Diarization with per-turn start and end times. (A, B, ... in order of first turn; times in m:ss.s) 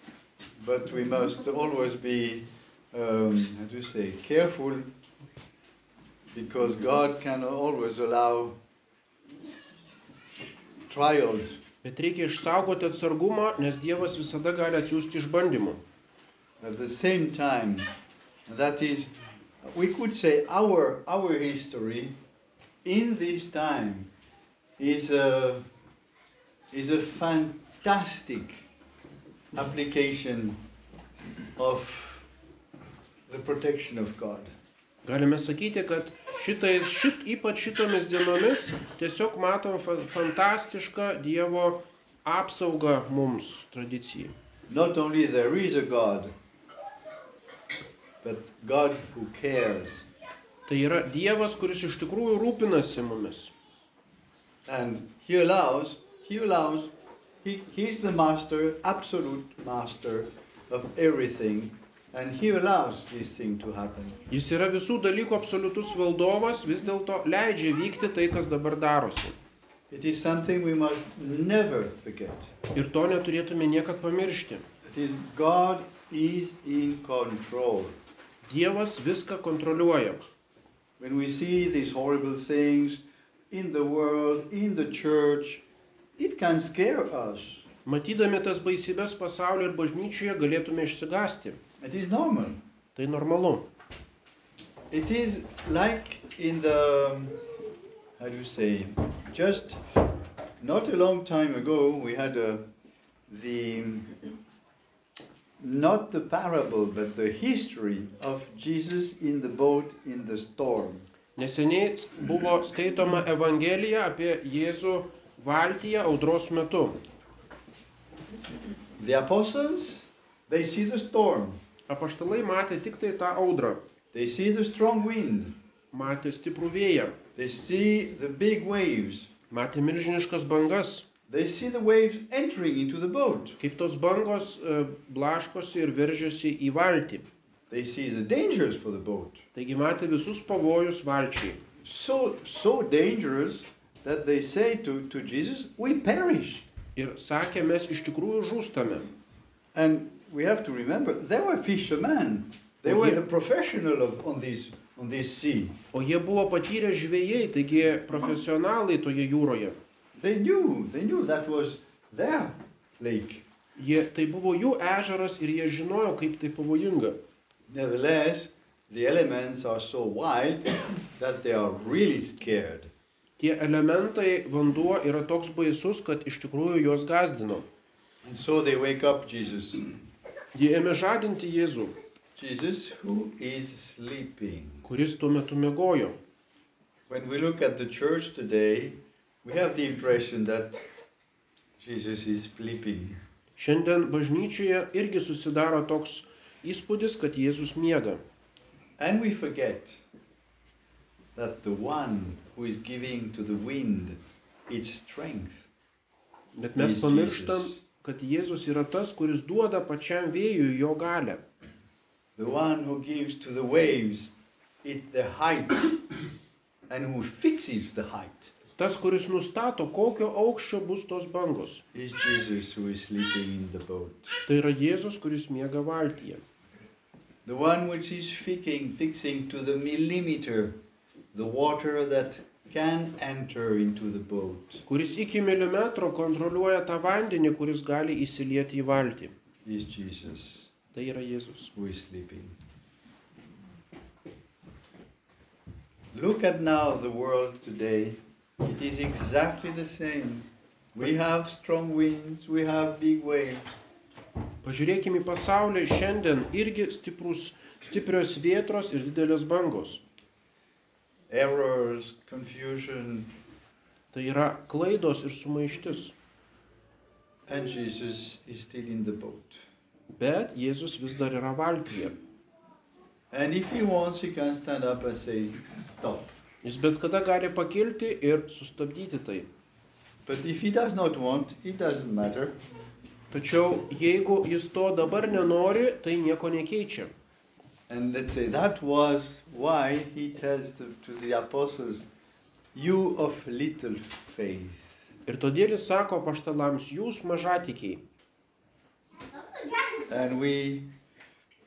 0:00.6-0:04.9 A
0:06.3-0:08.6 A
0:10.9-0:11.6 A
0:11.8-0:15.8 B
0:16.6-0:17.9 A
0:18.5-0:22.1 A
0:22.8-0:24.1 A
0:24.8-0:25.6 A
0:26.7-0:28.6 A
0:29.5-0:30.6 A
0:31.6-0:32.2 A
0:33.3-0:34.5 A
0:35.0-0:44.3 B
0:44.7-0:46.3 A
0:48.2-0:50.0 A
0:50.7-0:53.5 B
0:54.6-0:56.9 A
0:57.4-1:04.2 A
1:04.3-1:09.4 B
1:09.9-1:12.5 A
1:12.7-1:14.6 B
1:14.8-1:18.0 A
1:18.4-1:20.2 B
1:21.0-1:25.6 A
1:26.2-1:27.6 A
1:27.8-1:31.6 B
1:31.8-1:32.6 A
1:32.9-1:33.6 B
1:34.9-1:37.4 A
1:38.2-1:39.8 A
1:40.6-1:42.6 A
1:43.3-1:44.2 A
1:45.6-1:51.0 A
1:51.4-1:57.0 B
1:59.0-2:01.6 A
2:01.9-2:03.8 B
2:04.1-2:05.6 A
2:05.9-2:07.2 B
2:07.4-2:09.3 A
2:09.5-2:11.0 B
2:11.3-2:13.6 A
2:13.6-2:17.2 B
2:17.7-2:19.4 A
2:19.5-2:21.6 B
2:21.8-2:26.6 A
2:27.0-2:29.1 B
2:29.7-2:35.8 A
2:32.8-2:33.2 B
2:35.9-2:39.8 B
2:40.2-2:43.4 A
2:43.8-2:47.2 B
2:47.7-2:52.9 A
2:53.4-2:57.6 B
2:58.2-2:59.8 A
3:00.5-3:02.0 B
3:02.4-3:04.8 A
3:04.8-3:06.2 B
3:07.1-3:10.8 A
3:11.8-3:13.2 A
3:13.6-3:18.2 B
3:19.0-3:20.0 A
3:21.4-3:25.7 A
3:26.5-3:31.4 B
3:26.8-3:27.8 A
3:32.4-3:34.3 A
3:34.8-3:36.0 A
3:36.9-3:38.5 A
3:38.8-3:41.8 B
3:41.9-3:44.4 A
3:44.4-3:46.4 B
3:47.4-3:50.8 A
3:51.3-3:54.8 A
3:54.9-3:59.3 B
3:59.6-4:00.7 A
4:00.9-4:01.7 B
4:01.7-4:02.6 A
4:06.1-4:13.7 A
4:14.6-4:20.0 B
4:21.3-4:23.3 A
4:24.1-4:26.1 B
4:27.5-4:29.6 A
4:30.2-4:32.2 B
4:33.3-4:36.3 A
4:36.6-4:39.5 B
4:40.2-4:42.5 A
4:43.3-4:47.1 B
4:47.9-4:52.0 A
4:52.7-4:55.0 A
4:55.2-4:58.0 B
5:00.0-5:00.9 A